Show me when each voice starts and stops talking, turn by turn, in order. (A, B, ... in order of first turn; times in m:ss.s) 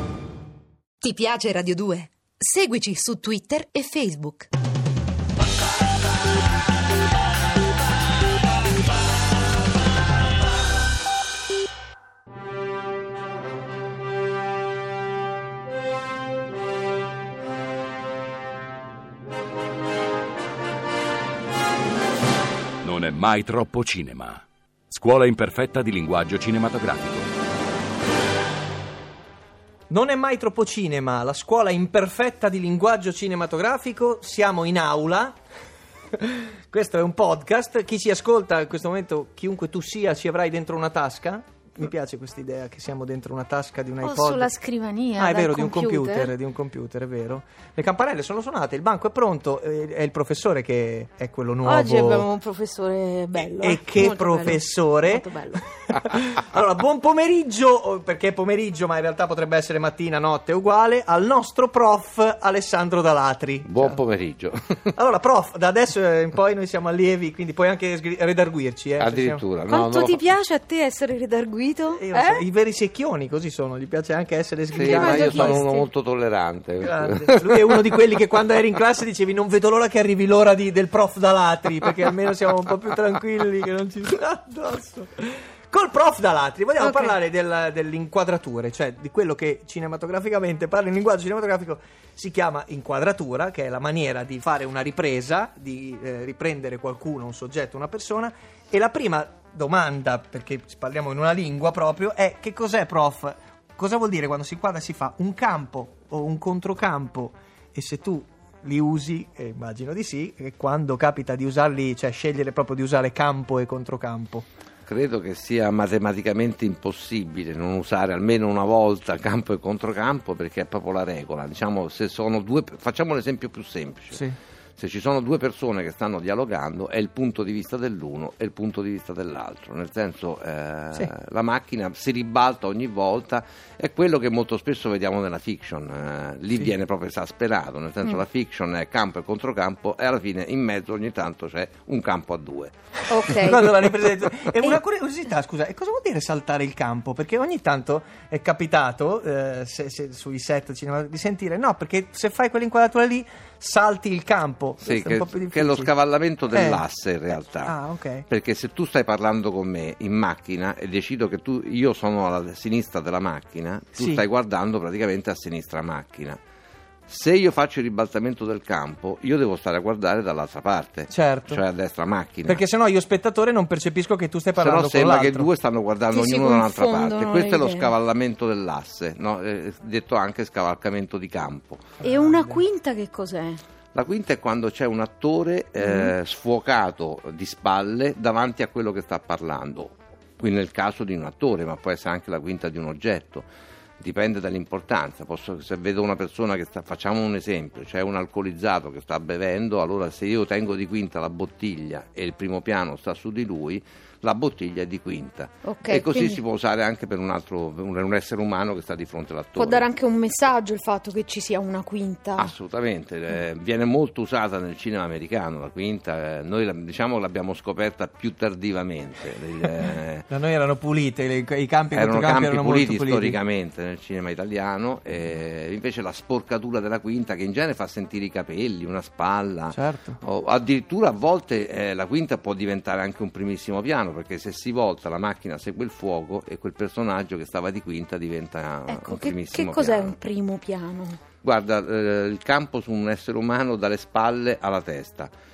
0:01.0-0:04.5 A
0:22.8-0:27.3 B
0:29.9-0:35.3 C
0:36.7-0:44.5 C
0:44.0-0:46.3 D
0:45.2-0:52.3 C
0:51.6-0:55.6 D
0:53.6-0:55.3 C
0:55.9-1:04.0 C
1:03.6-1:04.8 E
1:04.9-1:09.4 C
1:09.0-1:10.3 E
1:09.7-1:12.4 D
1:11.9-1:15.7 C
1:14.7-1:18.0 E
1:14.8-1:15.8 D
1:16.8-1:54.4 C
1:26.8-1:27.1 D
1:54.9-2:04.2 E
2:04.8-2:22.7 E
2:23.1-2:23.6 D
2:23.2-2:35.9 C
2:34.8-2:37.7 E
2:36.5-2:36.8 C
2:37.4-2:38.3 C
2:38.3-2:46.4 E
2:44.0-2:44.2 C
2:47.1-2:52.6 E
2:51.1-2:51.6 C
2:52.4-2:55.5 C
2:54.6-3:01.8 E
2:56.1-2:57.9 D
3:02.0-3:02.6 C
3:02.0-3:03.6 D
3:03.9-3:13.5 E
3:05.8-3:06.1 D
3:14.0-3:29.8 E
3:25.6-3:26.4 D
3:29.6-3:32.5 D
3:32.4-3:40.3 E
3:40.3-3:43.4 C
3:41.9-4:00.1 E
3:49.7-3:50.2 C
3:58.9-4:01.2 D
4:01.4-4:05.3 E